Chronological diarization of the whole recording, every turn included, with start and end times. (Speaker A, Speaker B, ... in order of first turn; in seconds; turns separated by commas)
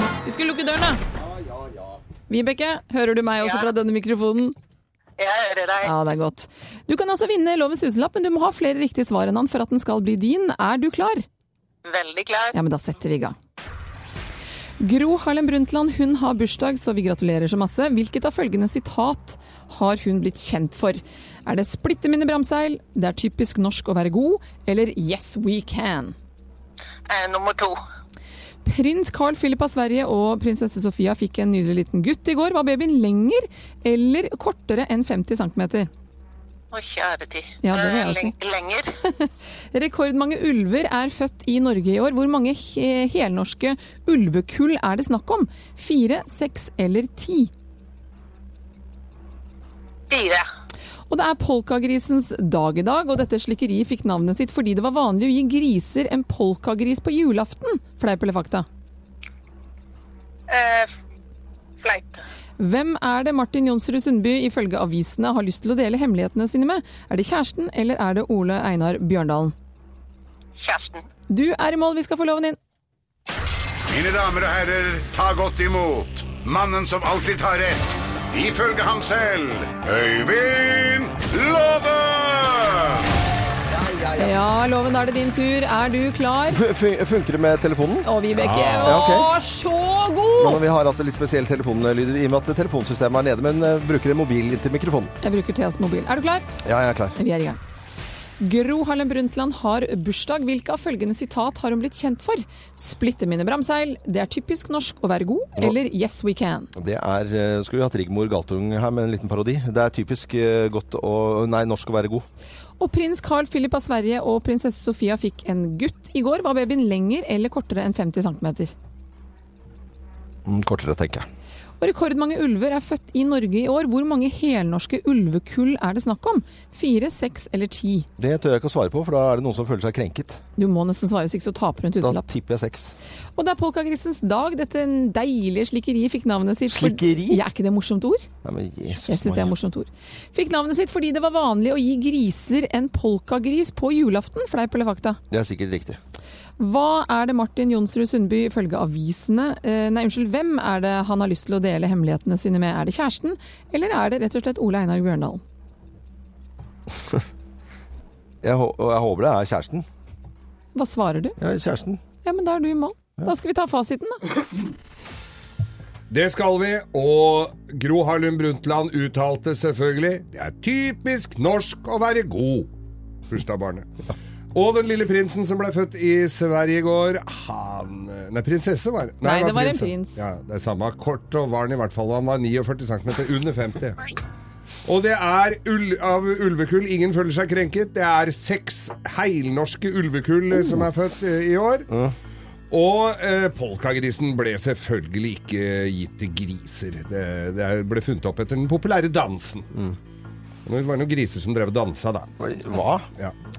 Speaker A: 0.2-1.0, Speaker B: 1.4-1.9, Speaker A: 2.3-4.5, Speaker C: 3.4-3.7, Speaker C: 5.2-5.9, Speaker A: 5.8-11.2, Speaker C: 11.8-12.6, Speaker A: 12.5-13.3, Speaker A: 14.8-26.1, Speaker C: 27.1-27.8, Speaker A: 28.6-35.9, Speaker C: 36.7-38.9, Speaker A: 37.6-38.3, Speaker A: 39.2-47.5, Speaker C: 50.1-50.5, Speaker A: 51.1-58.6, Speaker C: 60.5-60.9, Speaker C: 61.8-62.2, Speaker A: 62.6-69.5, Speaker C: 70.6-71.0, Speaker A: 71.3-72.6, Speaker D: 73.9-83.0, Speaker B: 83.7-84.4, Speaker A: 84.2-86.6, Speaker B: 86.5-88.1, Speaker A: 88.0-90.6, Speaker E: 88.3-89.0, Speaker B: 88.8-89.3, Speaker B: 90.4-95.1, Speaker A: 95.2-96.5, Speaker B: 96.6-97.2, Speaker A: 97.2-97.6, Speaker A: 98.4-106.7, Speaker B: 106.7-112.2, Speaker A: 112.8-118.7, Speaker B: 120.4-121.2, Speaker A: 121.8-128.1, Speaker B: 128.2-130.4, Speaker A: 130.6-132.2, Speaker B: 132.0-132.9, Speaker A: 133.4-138.3, Speaker B: 136.7-137.4, Speaker B: 138.4-139.5, Speaker A: 139.1-145.2, Speaker B: 145.3-146.0, Speaker A: 146.6-155.4, Speaker B: 158.4-159.8, Speaker A: 160.7-161.4, Speaker B: 161.4-162.0, Speaker A: 162.2-164.2, Speaker E: 166.1-172.7, Speaker E: 173.3-173.9, Speaker E: 174.5-184.1, Speaker A: 179.2-180.2, Speaker E: 184.8-191.9, Speaker B: 190.5-190.8, Speaker B: 191.9-192.1, Speaker E: 192.7-199.7, Speaker E: 200.7-202.3, Speaker B: 202.4-203.1